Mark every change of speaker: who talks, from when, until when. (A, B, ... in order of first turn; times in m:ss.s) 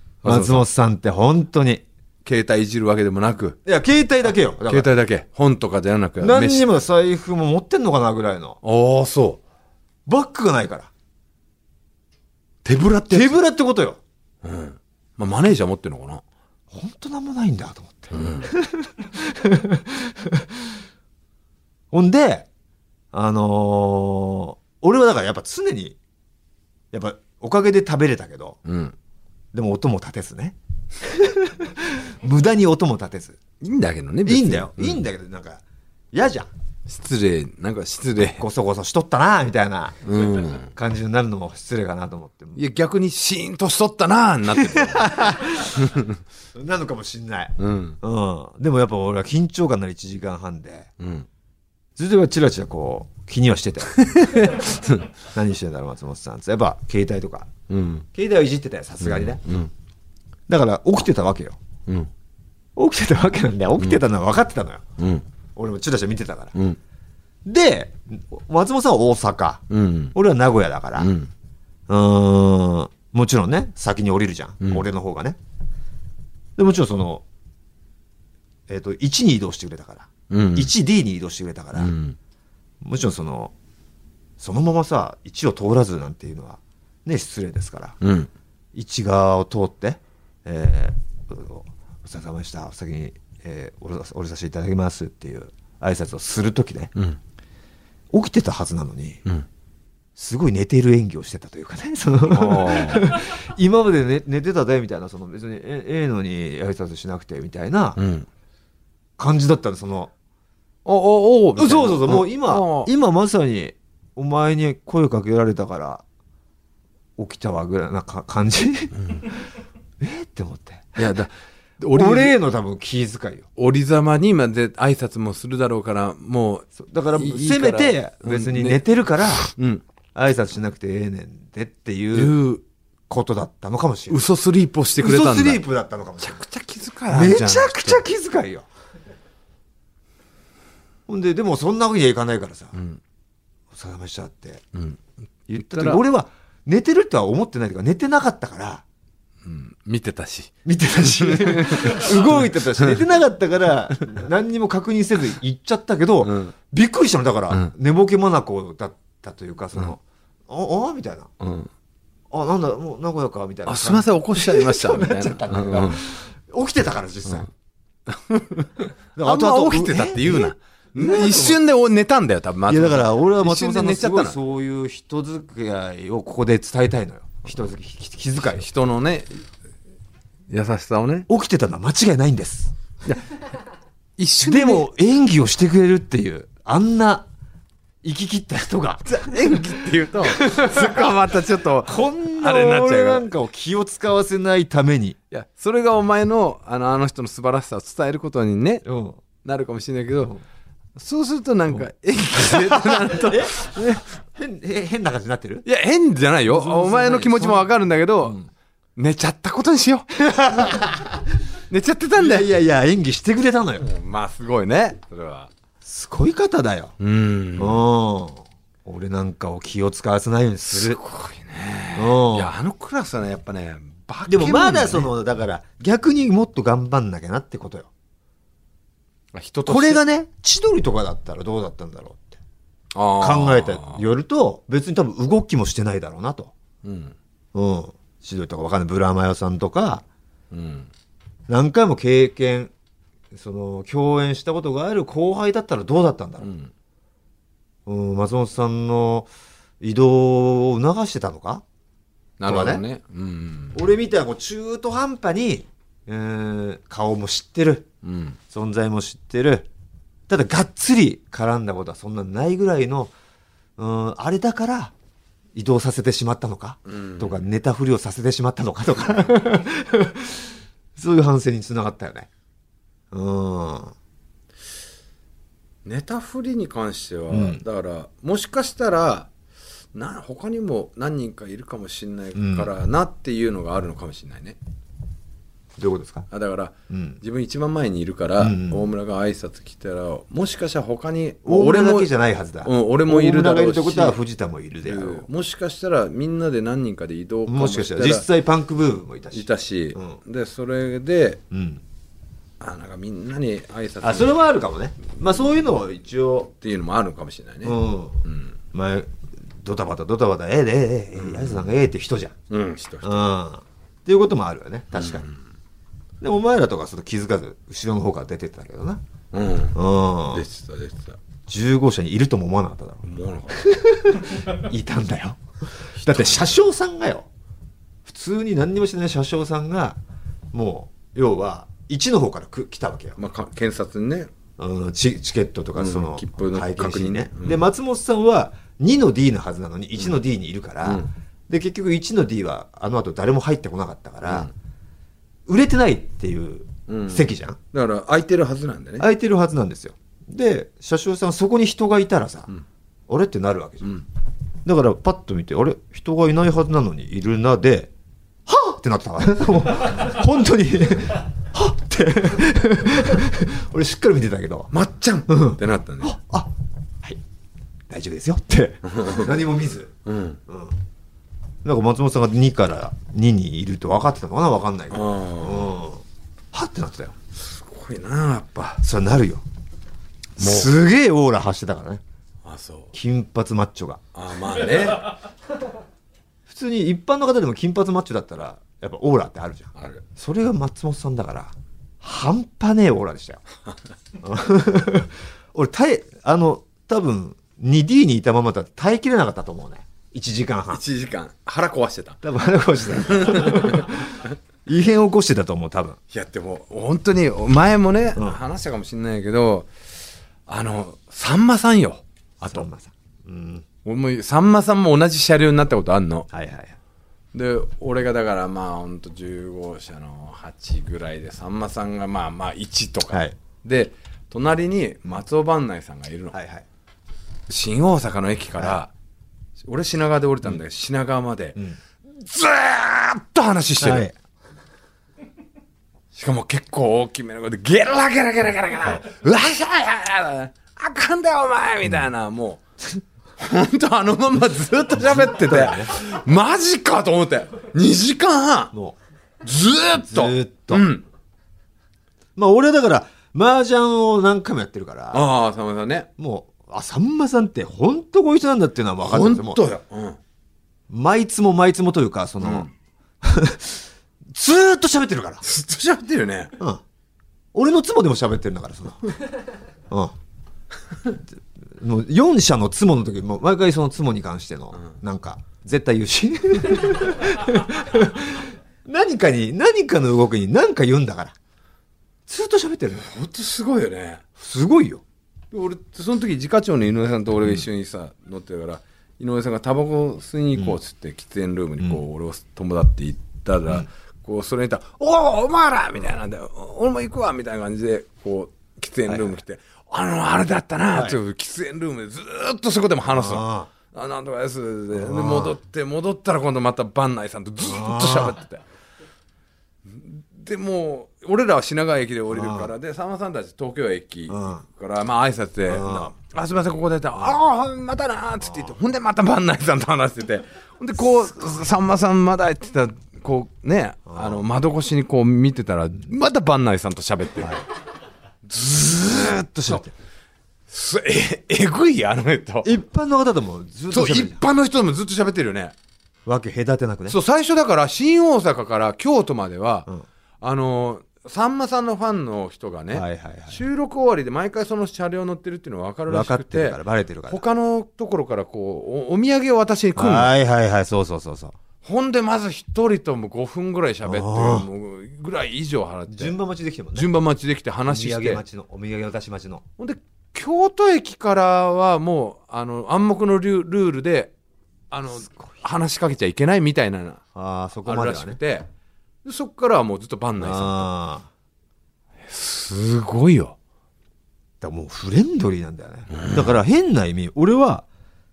0:00.2-0:00.6 A
0:00.2-0:01.8 B
0:02.2-0:03.6 A
0:03.6-0:04.9 B
0:04.6-0:06.7 A
0:06.2-0:08.6 B
0:08.6-0:09.4 A
0:10.0-0:10.9 B
0:12.6-0:13.4 A
0:13.1-0:14.0 B
0:14.4-0:16.2 A
0:16.7-0:20.8 B
0:18.1-0:18.5 A
0:21.9-0:22.5 B
0:23.1-0:26.0 B
0:26.9-0:28.6 B
0:28.6-0:28.9 A
0:29.5-0:33.4 B
0:33.6-0:35.0 A
0:34.2-0:35.6 B
0:36.1-0:36.5 B
0:36.9-0:38.4 A
0:38.4-0:42.6 B
0:40.0-0:40.7 A
0:42.5-0:45.1 A
0:44.5-0:46.0 B
0:45.8-0:46.2 A
0:46.5-0:50.9 B
0:47.6-0:48.0 A
0:51.0-0:51.3 A
0:52.0-0:54.7 B
0:54.0-0:55.1 A
0:55.3-0:57.5 B
0:57.7-0:58.0 A
0:58.1-0:59.4 B
0:59.0-0:59.7 A
1:00.5-1:01.6 B
1:02.8-1:04.8 B
1:05.0-1:05.2 A
1:05.6-1:06.5 B
1:07.4-1:11.1 B
1:09.7-1:10.1 A
1:11.0-1:11.3 A
1:11.9-1:15.4 B
1:16.6-1:17.2 B
1:18.7-1:21.9 B
1:20.3-1:20.7 A
1:21.8-1:22.2 A
1:22.8-1:23.5 B
1:24.4-1:28.0 B
1:28.0-1:28.3 A
1:28.7-1:36.9 B
1:38.1-1:39.2 B
1:40.2-1:48.0 B
1:42.2-1:43.1 A
1:48.0-1:48.3 A
1:49.2-1:50.1 B
1:50.8-1:52.9 A
1:51.6-1:56.0 B
1:57.2-1:59.2 B
2:00.0-2:01.1 B
2:01.0-2:02.4 A
2:01.9-2:03.4 B
2:03.6-2:09.8 A
2:06.7-2:09.4 B
2:10.1-2:12.4 B
2:12.1-2:12.6 A
2:13.1-2:14.2 B
2:14.1-2:15.6 A
2:15.0-2:16.4 B
2:16.2-2:18.0 A
2:17.1-2:18.7 B
2:21.1-2:22.8 B
2:22.7-2:23.0 A
2:23.7-2:24.6 B
2:24.7-2:25.0 A
2:25.5-2:28.8 B
2:25.6-2:26.0 A
2:29.4-2:33.0 A
2:30.6-2:41.3 B
2:36.2-2:36.5 A
2:41.4-2:41.7 A
2:42.3-2:47.5 B
2:43.6-2:46.0 A
2:48.1-2:54.4 A
2:49.1-2:51.6 B
2:52.7-2:58.7 B
2:58.4-2:59.4 A
3:00.5-3:01.3 A
3:01.3-3:02.7 B
3:04.2-3:04.9 A
3:04.4-3:07.3 B
3:08.0-3:11.2 B
3:09.1-3:13.3 A
3:11.8-3:15.2 B
3:15.3-3:18.8 A
3:18.8-3:19.2 B
3:19.4-3:20.3 A
3:20.9-3:24.0 A
3:22.4-3:25.6 B
3:25.6-3:28.4 A
3:26.5-3:27.7 B
3:29.0-3:30.1 A
3:30.1-3:31.2 B
3:31.7-3:32.5 A
3:32.2-3:33.9 B
3:33.8-3:35.5 A
3:35.8-3:36.9 B
3:37.0-3:37.8 A
3:37.6-3:41.0 B
3:40.7-3:45.1 A
3:41.9-3:42.5 B
3:44.3-3:47.9 B
3:49.3-3:50.0 A
3:49.6-3:52.4 B
3:52.9-3:54.0 A
3:53.2-3:56.5 B
3:56.8-3:57.1 A
3:57.5-4:00.0 B
4:00.5-4:00.9 A
4:01.5-4:02.7 B
4:03.3-4:06.5 B
4:06.4-4:06.7 A
4:07.8-4:09.3 B
4:09.8-4:11.6 B
4:12.4-4:13.8 A
4:12.4-4:12.8 B
4:13.7-4:17.9 B
4:18.0-4:18.4 A
4:18.5-4:19.7 B
4:20.3-4:23.1 B
4:23.8-4:24.9 B
4:25.5-4:32.3 B
4:26.9-4:27.4 A
4:33.1-4:33.9 B
4:35.8-4:39.3 A
4:37.3-4:37.6 B
4:39.9-4:44.6 A
4:42.3-4:42.7 B
4:45.8-4:46.3 B
4:46.3-4:52.1 A
4:46.9-4:47.2 B
4:48.4-4:48.9 B
4:51.4-4:55.3 B
4:52.6-4:54.2 A
4:54.8-4:58.2 A
4:57.4-5:00.2 B
4:59.3-5:01.4 A
5:01.5-5:01.8 B
5:02.6-5:04.4 A
5:04.0-5:06.5 B
5:06.6-5:08.5 A
5:07.6-5:08.2 B
5:08.7-5:12.3 B
5:11.1-5:11.8 A
5:12.5-5:13.2 A
5:13.0-5:15.3 B
5:14.9-5:15.3 A
5:16.2-5:19.0 B
5:19.3-5:19.8 A
5:19.7-5:20.4 B
5:20.3-5:21.2 A
5:21.5-5:25.4 B
5:23.0-5:23.7 A
5:26.0-5:27.3 B
5:26.0-5:26.6 A
5:28.0-5:30.0 B
5:30.5-5:33.2 B
5:33.2-5:34.3 A
5:34.6-5:44.5 B
5:35.8-5:37.6 A
5:40.8-5:41.1 A
5:44.2-5:44.5 A
5:45.5-5:47.6 B
5:46.9-5:49.1 A
5:49.0-5:52.5 B
5:53.1-5:54.0 B
5:54.6-5:57.9 B
5:58.5-6:04.7 B
6:04.7-6:06.1 A
6:05.3-6:07.2 B
6:07.9-6:09.9 B
6:08.9-6:09.3 A
6:10.0-6:10.4 A
6:10.5-6:10.8 B
6:11.6-6:17.1 B
6:14.9-6:15.7 A
6:17.4-6:18.8 A
6:18.8-6:19.4 B
6:20.4-6:22.0 B
6:20.4-6:20.7 A
6:22.4-6:22.9 A
6:22.9-6:24.0 B
6:24.1-6:25.2 A
6:26.5-6:33.4 B
6:29.8-6:30.0 A
6:34.2-6:40.8 B
6:40.7-6:42.2 A
6:42.2-6:46.0 B
6:42.9-6:44.2 A
6:46.1-6:49.7 A
6:48.2-6:48.4 B
6:50.5-6:52.6 A
6:52.4-6:53.6 B
6:53.8-6:56.3 A
6:56.3-6:56.8 B
6:57.3-7:06.4 A
7:03.1-7:03.3 B
7:06.3-7:06.6 B
7:07.5-7:08.9 A
7:09.6-7:11.6 A
7:12.2-7:14.1 A
7:13.8-7:14.1 B
7:16.1-7:22.6 A
7:23.4-7:28.7 A
7:25.0-7:25.9 B
7:29.4-7:31.0 A
7:30.1-7:30.9 B
7:32.4-7:35.3 B
7:35.1-7:36.1 A
7:36.2-7:39.6 B
7:39.0-7:40.2 A
7:40.9-7:42.7 B
7:42.4-7:42.7 A
7:43.2-7:45.4 B
7:45.4-7:46.5 A
7:47.5-7:49.2 B
7:49.9-7:50.1 B
7:51.8-8:01.3 B
8:02.3-8:03.1 B
8:02.9-8:04.2 A
8:04.4-8:05.0 B
8:05.5-8:28.6 A
8:19.1-8:19.4 B
8:20.9-8:21.2 B
8:23.1-8:23.7 B
8:24.9-8:25.6 B
8:27.6-8:28.4 B
8:29.8-8:47.6 A
8:32.3-8:32.7 B
8:34.3-8:34.6 B
8:35.7-8:36.1 B
8:38.4-8:38.7 B
8:44.1-8:44.4 B
8:48.5-8:49.8 A
8:48.5-8:49.9 B
8:50.7-8:52.7 A
8:52.6-8:54.4 B
8:53.9-8:55.7 A
8:56.2-8:57.2 B
8:57.1-8:59.9 A
9:00.4-9:10.3 A
9:02.9-9:03.6 B
9:06.1-9:07.4 B
9:10.0-9:11.6 B
9:11.8-9:16.4 A
9:14.0-9:14.7 B
9:16.1-9:17.1 B
9:16.9-9:18.4 A
9:17.9-9:19.6 B
9:19.8-9:24.3 A
9:24.9-9:27.2 A
9:25.2-9:25.6 B
9:27.3-9:28.4 B
9:27.8-9:28.7 A
9:29.2-9:30.9 A
9:30.4-9:31.3 B
9:32.2-9:33.6 A
9:34.6-9:37.8 B
9:36.1-9:36.6 A